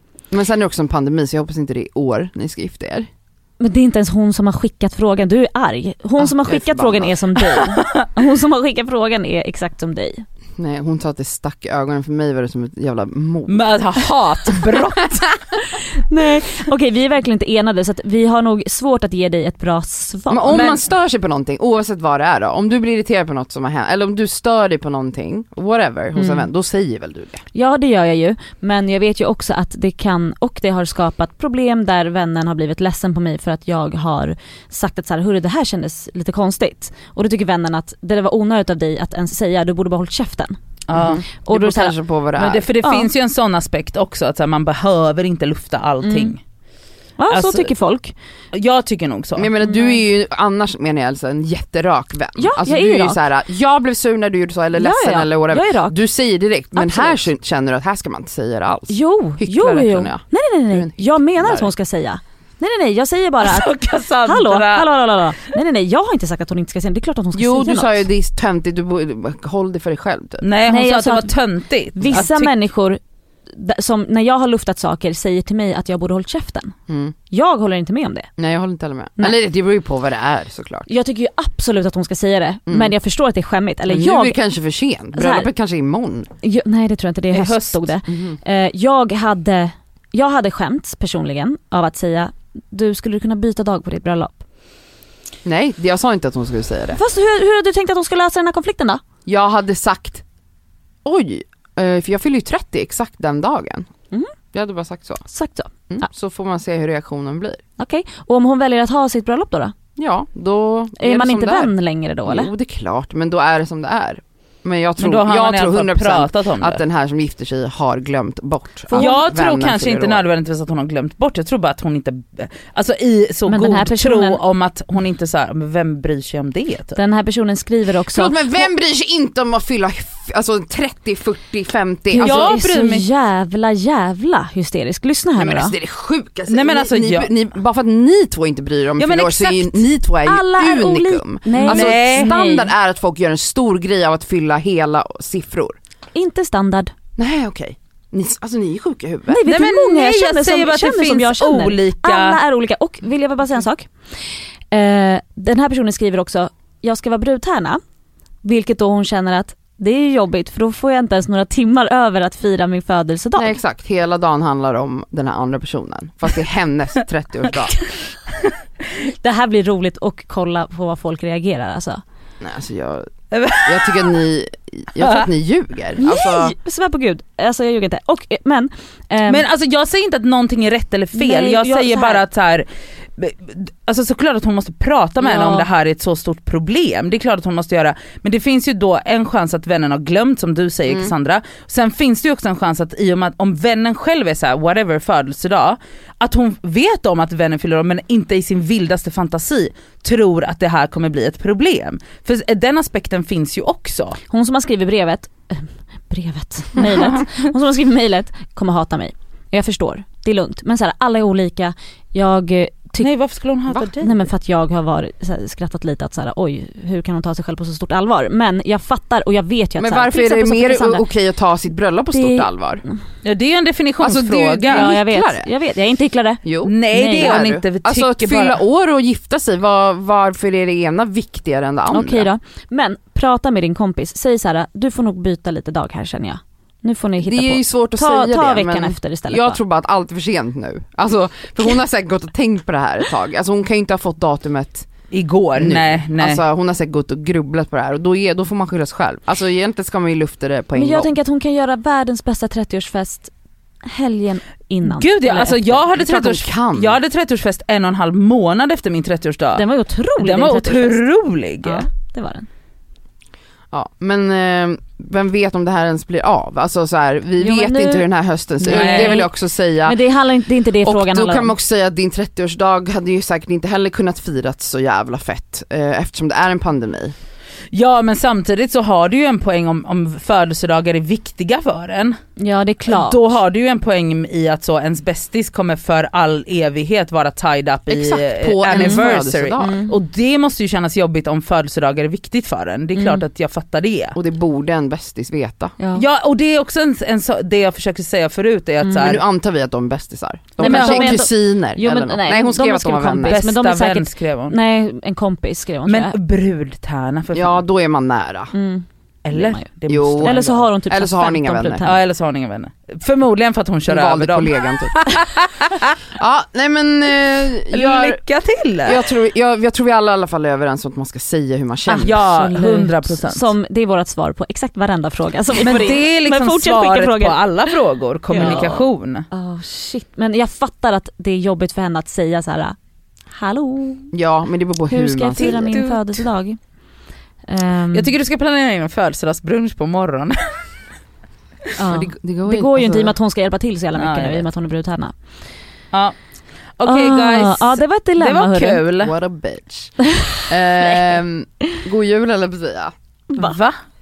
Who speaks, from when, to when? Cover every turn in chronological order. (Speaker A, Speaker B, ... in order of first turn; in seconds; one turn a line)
Speaker A: 0.3-3.1
Speaker B: 3.6-10.2
Speaker A: 6.2-7.2
Speaker C: 7.6-7.9
Speaker A: 10.6-13.7
Speaker C: 13.5-15.4
Speaker B: 16.0-20.6
Speaker A: 20.3-27.4
Speaker C: 20.5-20.8
Speaker B: 26.1-26.5
Speaker B: 27.5-40.5
Speaker C: 40.9-41.2
Speaker A: 40.9-42.7
Speaker B: 41.4-41.9
Speaker C: 42.4-46.4
Speaker B: 42.8-43.1
Speaker B: 46.0-46.3
Speaker B: 47.2-48.1
Speaker C: 47.3-47.7
Speaker C: 48.5-49.5
Speaker A: 49.4-61.7
Speaker B: 49.6-50.0
Speaker B: 52.4-53.2
Speaker B: 54.8-56.0
Speaker B: 56.7-57.2
Speaker B: 58.9-68.1
Speaker C: 63.4-64.9
Speaker A: 67.3-70.4
Speaker C: 70.4-72.5
Speaker B: 70.7-71.4
Speaker B: 71.9-76.7
Speaker A: 76.9-77.1
Speaker B: 77.3-78.3
Speaker A: 78.4-80.9
Speaker B: 80.9-84.4
Speaker A: 82.7-82.9
Speaker A: 83.9-86.3
Speaker B: 85.1-85.5
Speaker B: 86.4-94.4
Speaker C: 87.3-87.8
Speaker A: 88.1-88.4
Speaker A: 95.4-97.0
Speaker B: 96.9-99.0
Speaker A: 99.2-100.2
Speaker A: 101.0-103.9
Speaker A: 104.5-105.2
Speaker B: 105.3-105.7
Speaker A: 105.9-107.6
Speaker B: 107.8-109.7
Speaker A: 110.0-111.7
Speaker B: 111.0-112.5
Speaker A: 112.2-120.2
Speaker C: 115.0-116.8
Speaker C: 118.9-127.0
Speaker B: 123.5-124.4
Speaker B: 126.9-128.7
Speaker A: 128.1-132.5
Speaker C: 132.1-133.1
Speaker B: 132.2-135.7
Speaker A: 135.4-145.8
Speaker C: 136.5-137.3
Speaker C: 139.0-139.9
Speaker B: 140.2-142.7
Speaker C: 141.5-142.5
Speaker B: 146.1-146.9
Speaker A: 147.2-149.4
Speaker B: 149.3-153.9
Speaker C: 149.4-152.4
Speaker B: 154.7-157.8
Speaker B: 158.4-163.6
Speaker A: 163.3-167.8
Speaker B: 169.1-172.0
Speaker A: 172.4-176.5
Speaker C: 173.3-174.0
Speaker B: 176.0-179.5
Speaker C: 179.3-204.2
Speaker B: 181.1-182.2
Speaker B: 185.2-185.7
Speaker B: 204.3-213.1
Speaker C: 213.0-214.2
Speaker B: 213.8-221.0
Speaker A: 219.8-222.8
Speaker B: 222.1-222.5
Speaker C: 223.2-224.9
Speaker A: 224.0-225.5
Speaker B: 224.6-227.4
Speaker A: 226.4-232.3
Speaker C: 226.6-228.6
Speaker B: 231.9-239.6
Speaker A: 237.2-244.9
Speaker C: 245.1-246.4
Speaker A: 245.5-251.1
Speaker B: 250.7-253.3
Speaker B: 253.8-255.8
Speaker C: 254.8-259.6
Speaker A: 255.9-257.0
Speaker B: 259.5-261.0
Speaker C: 260.2-261.9
Speaker B: 261.6-262.5
Speaker A: 263.7-270.0
Speaker B: 267.4-268.1
Speaker B: 268.6-269.3
Speaker C: 268.7-269.2
Speaker B: 269.8-271.6
Speaker A: 270.8-277.1
Speaker C: 277.7-282.2
Speaker B: 282.4-283.4
Speaker C: 282.9-294.1
Speaker A: 287.9-289.8
Speaker B: 288.7-289.9
Speaker B: 292.9-293.2
Speaker A: 294.1-295.7
Speaker B: 295.8-296.0
Speaker C: 295.9-299.2
Speaker A: 299.0-303.4
Speaker B: 300.6-306.2
Speaker C: 300.6-301.2
Speaker C: 303.3-304.6
Speaker C: 305.9-307.6
Speaker A: 307.3-308.5
Speaker B: 308.5-312.0
Speaker C: 309.2-310.6
Speaker A: 309.9-311.8
Speaker C: 311.8-316.0
Speaker A: 313.9-315.2
Speaker A: 316.1-318.2
Speaker C: 317.7-319.0
Speaker A: 318.8-322.2
Speaker C: 321.9-323.5
Speaker B: 322.0-327.4
Speaker C: 325.5-329.2
Speaker B: 328.3-332.8
Speaker B: 333.3-334.1
Speaker A: 334.1-335.8
Speaker B: 334.9-336.6
Speaker C: 335.4-336.2
Speaker B: 337.5-338.1
Speaker C: 337.9-340.4
Speaker B: 341.8-345.1
Speaker A: 341.9-343.1
Speaker C: 343.9-344.4
Speaker C: 346.8-349.1
Speaker B: 346.8-348.8
Speaker A: 349.0-349.9
Speaker B: 350.1-350.5
Speaker A: 350.5-352.9
Speaker C: 353.3-353.8